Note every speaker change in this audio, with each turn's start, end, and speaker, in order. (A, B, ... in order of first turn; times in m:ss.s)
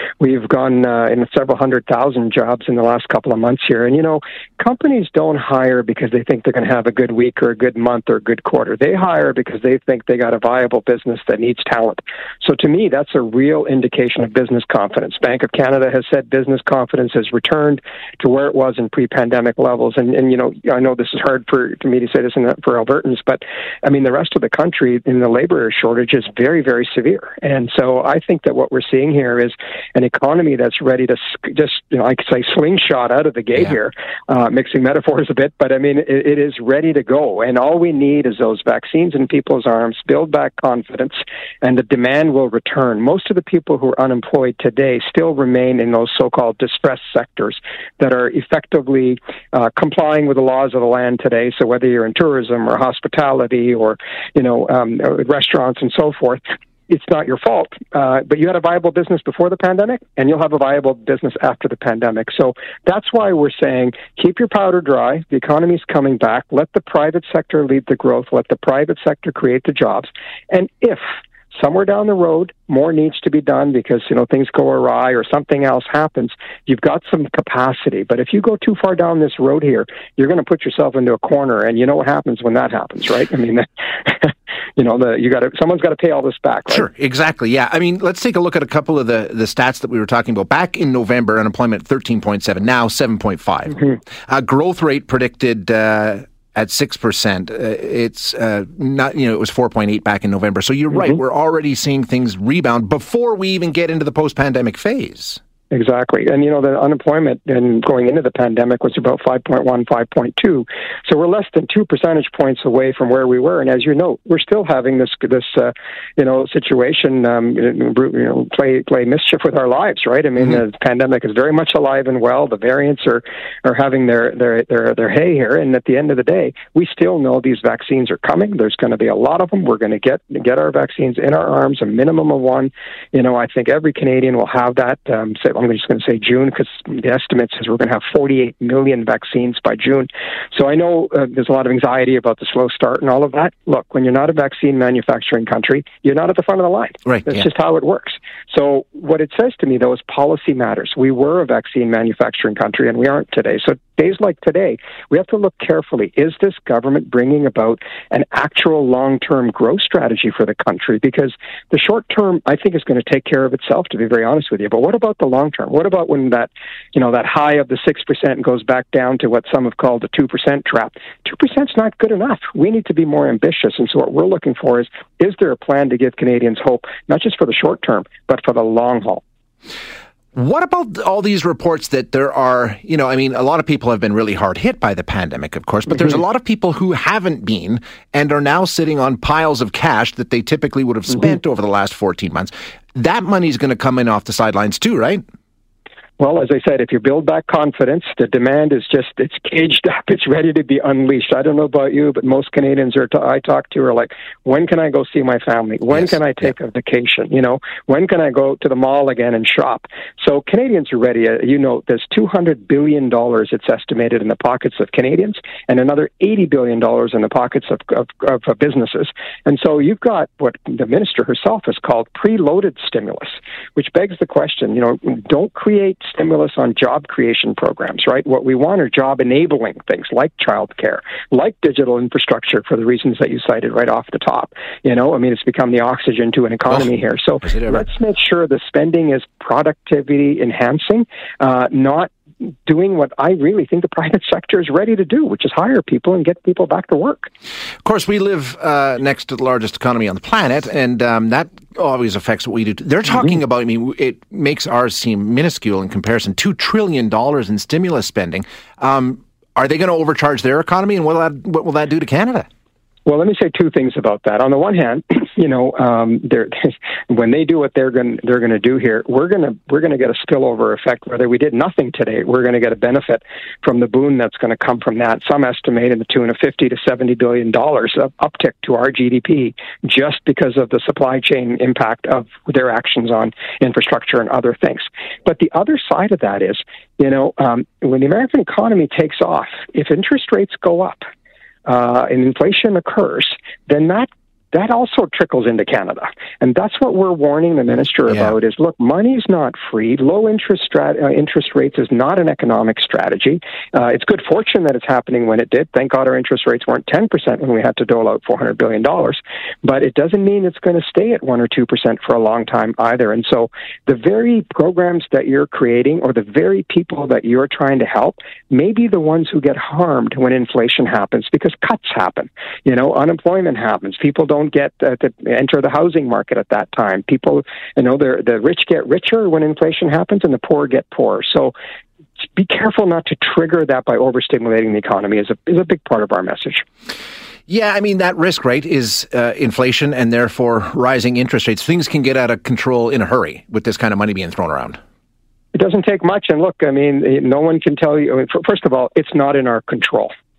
0:00.2-1:26.9 A
1:26.7-1:45.4 B
1:45.7-2:59.2 A
2:27.1-2:27.4 B
3:00.4-3:15.2 B
3:16.2-4:02.1 A
3:25.9-3:26.5 B
3:57.4-3:57.8 B
4:02.7-4:07.3 A
4:07.8-4:22.5 B
4:23.1-4:51.0 A
4:51.7-5:31.5 A
4:58.1-4:58.4 B
5:32.2-5:36.6 A
5:37.5-5:44.8 B
5:45.5-5:50.1 A